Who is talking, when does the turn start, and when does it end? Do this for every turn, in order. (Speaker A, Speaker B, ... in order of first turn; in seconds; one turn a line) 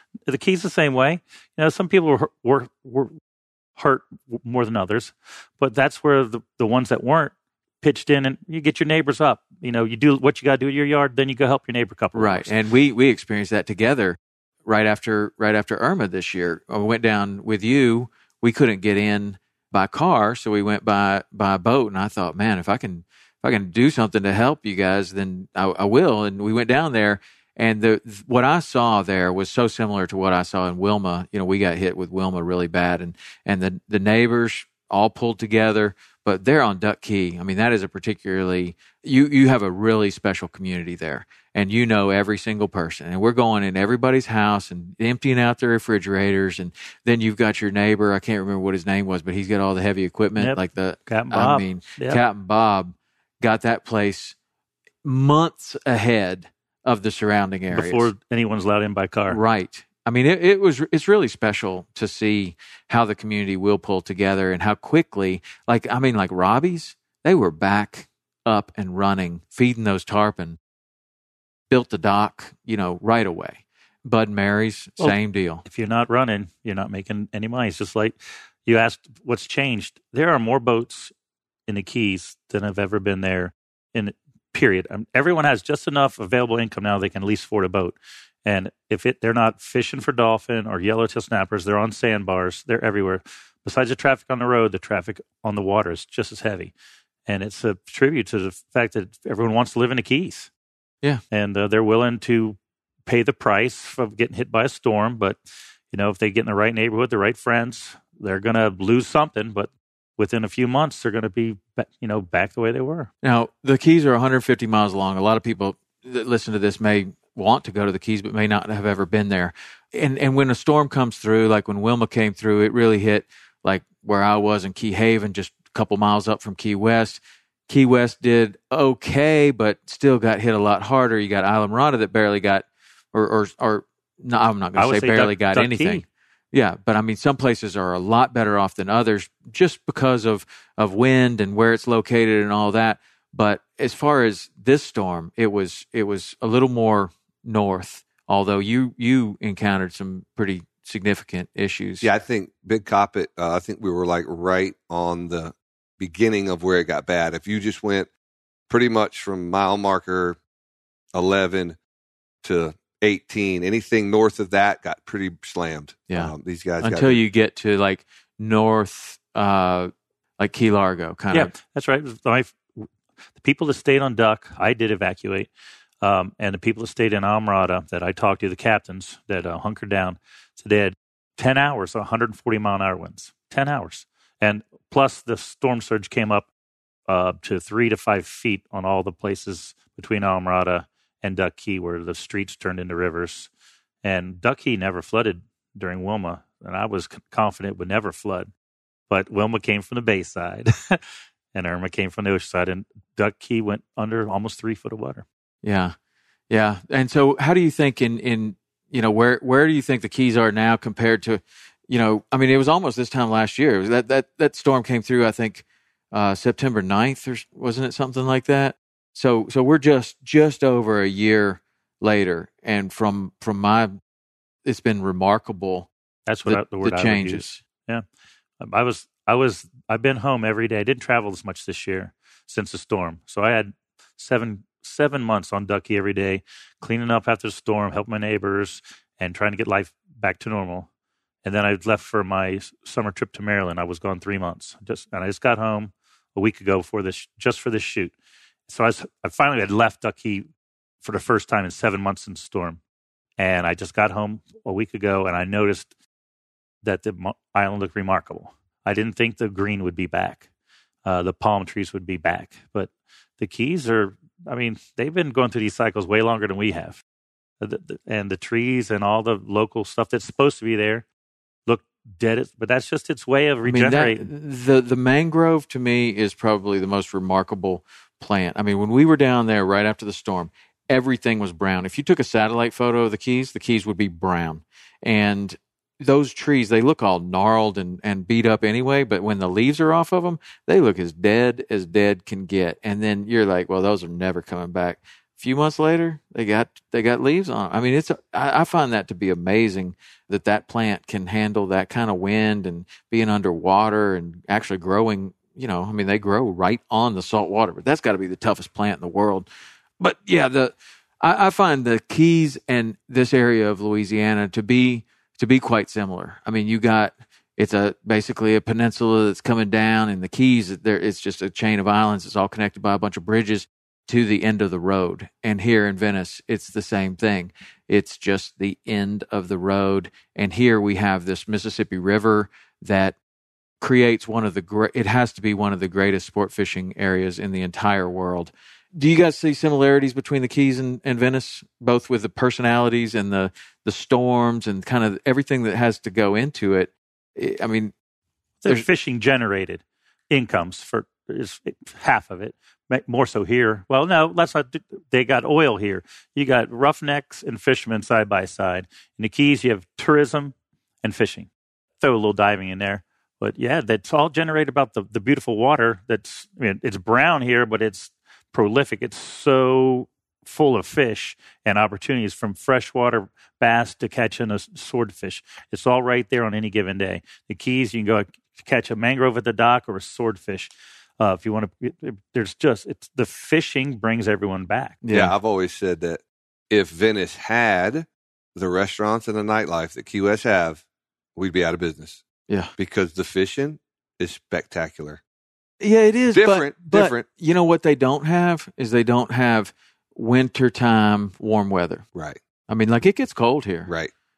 Speaker A: 0.3-3.1
Speaker A: 3.8-12.5
Speaker B: 12.1-54.4
Speaker A: 50.4-52.2
Speaker B: 55.0-58.1
Speaker A: 57.7-59.4
Speaker B: 59.3-70.6
Speaker B: 71.7-75.6
Speaker A: 75.0-81.1
Speaker A: 81.7-96.7
Speaker A: 97.3-100.5
Speaker A: 101.3-105.4
Speaker A: 105.9-113.1
Speaker B: 113.2-152.1
Speaker A: 134.8-136.0
Speaker C: 152.0-158.1
Speaker C: 158.7-160.4
Speaker C: 161.1-161.8
Speaker C: 162.4-167.2
Speaker B: 166.1-171.5
Speaker A: 171.3-172.6
Speaker A: 173.4-175.5
Speaker A: 176.0-186.5
Speaker A: 187.1-193.5
Speaker A: 194.0-198.5
Speaker A: 199.1-201.0
Speaker A: 201.5-205.2
Speaker B: 205.6-205.9
Speaker B: 206.5-224.0
Speaker B: 224.7-225.9
Speaker A: 226.3-228.0
Speaker B: 226.4-227.6
Speaker A: 228.6-240.9
Speaker A: 241.4-248.1
Speaker A: 248.7-250.5
Speaker A: 251.0-252.8
Speaker A: 253.4-255.9
Speaker A: 256.8-260.4
Speaker A: 261.1-267.0
Speaker A: 267.6-271.1
Speaker A: 271.7-274.2
Speaker B: 273.7-309.5
Speaker B: 310.0-333.2
Speaker B: 333.8-347.9
Speaker A: 348.6-361.5
Speaker A: 362.0-385.0
Speaker B: 385.0-385.3
Speaker C: 385.1-390.8
Speaker C: 391.4-392.2
Speaker C: 392.8-395.2
Speaker B: 395.8-402.1
Speaker C: 396.3-397.2
Speaker B: 402.7-403.9
Speaker C: 403.9-404.1